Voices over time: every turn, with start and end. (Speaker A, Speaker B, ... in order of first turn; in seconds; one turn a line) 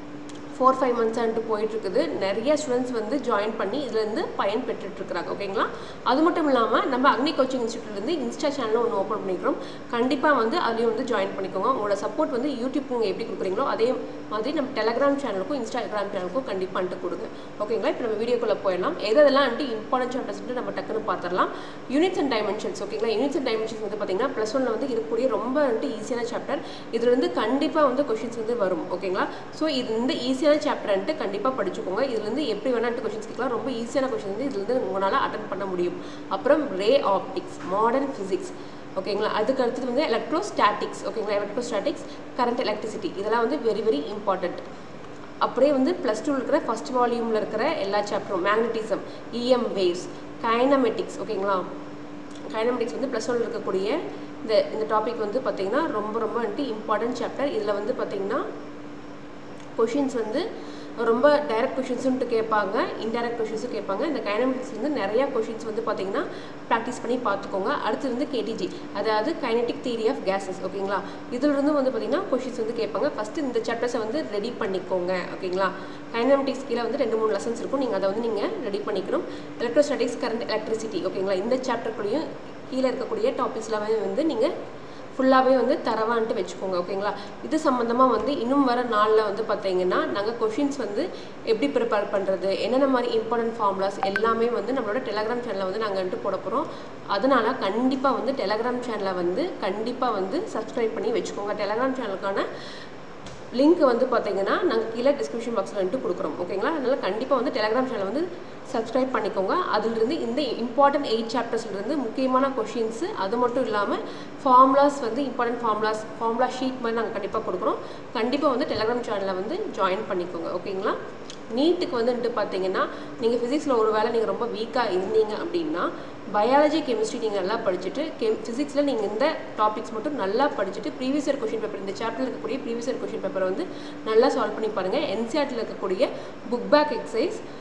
Speaker A: 0.6-44.6
Speaker A: 45.4-51.6
Speaker A: 52.5-58.4
Speaker A: 59.8-60.4
Speaker A: 61.0-84.5
Speaker A: 85.2-102.5
Speaker A: 103.6-121.0
Speaker A: 121.5-137.4